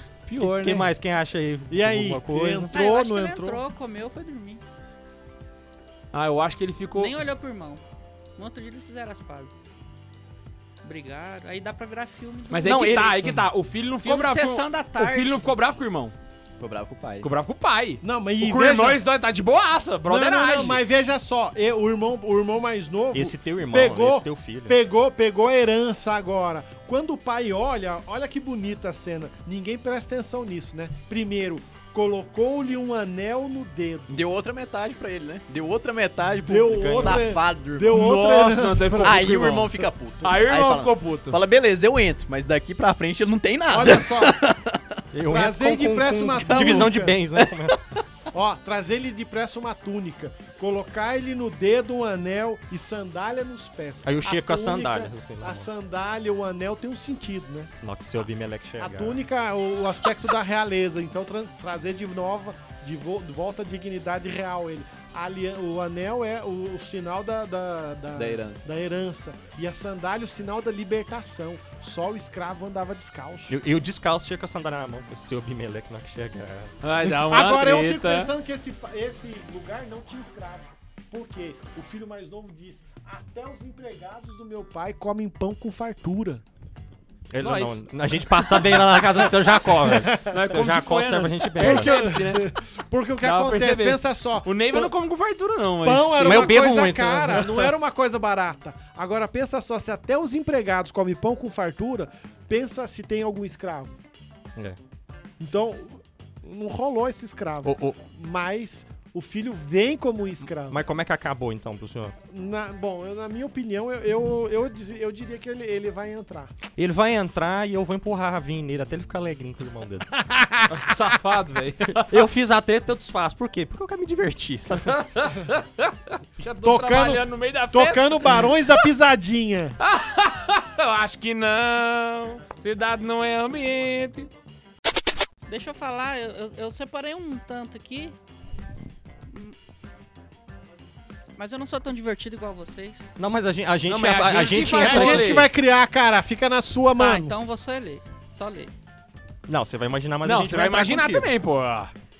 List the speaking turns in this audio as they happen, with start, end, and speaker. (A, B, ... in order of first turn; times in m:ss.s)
0:00.2-0:00.9 A
0:00.4-0:02.8 B
0:01.7-0:03.6 C
0:02.7-0:04.6 D
0:06.1-0:07.1 A
0:07.0-0:07.8 D
0:08.4-0:09.6 D
0:10.8-0:13.1 D
0:12.5-0:16.1 A
0:12.6-0:13.4 B
0:14.0-0:15.5 D
0:16.6-0:17.3 E
0:17.2-0:20.8 A
0:18.0-0:19.0 C
0:20.1-0:34.1 C
0:23.1-0:24.8 B
0:34.1-0:38.0 E
0:36.4-0:39.5 C
0:36.7-0:37.2 B
0:37.9-0:41.4 A
0:39.0-0:44.8 E
0:43.7-0:44.4 C
0:45.1-0:47.8 B
0:45.2-0:47.2 C
0:46.5-0:47.7 E
0:48.3-0:57.7 C
0:54.0-0:55.7 B
0:57.8-0:59.2 B
0:58.8-1:13.5 C
1:08.1-1:08.6 E
1:13.5-1:16.7 B
1:16.8-1:18.3 A
1:17.2-1:26.4 C
1:27.3-1:31.9 B
1:27.4-1:28.5 A
1:28.8-1:30.3 C
1:30.2-1:32.5 A
1:31.6-1:34.9 C
1:33.2-1:36.6 A
1:35.8-1:44.0 C
1:36.2-1:37.7 B
1:45.4-1:50.8 C
1:47.6-1:48.0 B
1:50.6-1:52.2 B
1:52.3-1:56.5 C
1:56.8-2:00.1 B
2:00.1-2:00.7 C
2:00.7-2:02.2 A
2:01.9-2:05.0 B
2:04.8-2:08.8 A
2:06.6-2:09.8 C
2:09.8-2:14.3 A
2:15.5-2:18.1 D
2:19.3-2:19.5 D
2:21.4-2:23.1 D
2:23.2-2:25.4 B
2:23.9-2:25.5 A
2:24.5-2:27.3 C
2:27.0-2:28.7 D
2:29.5-2:31.3 B
2:30.2-2:31.9 A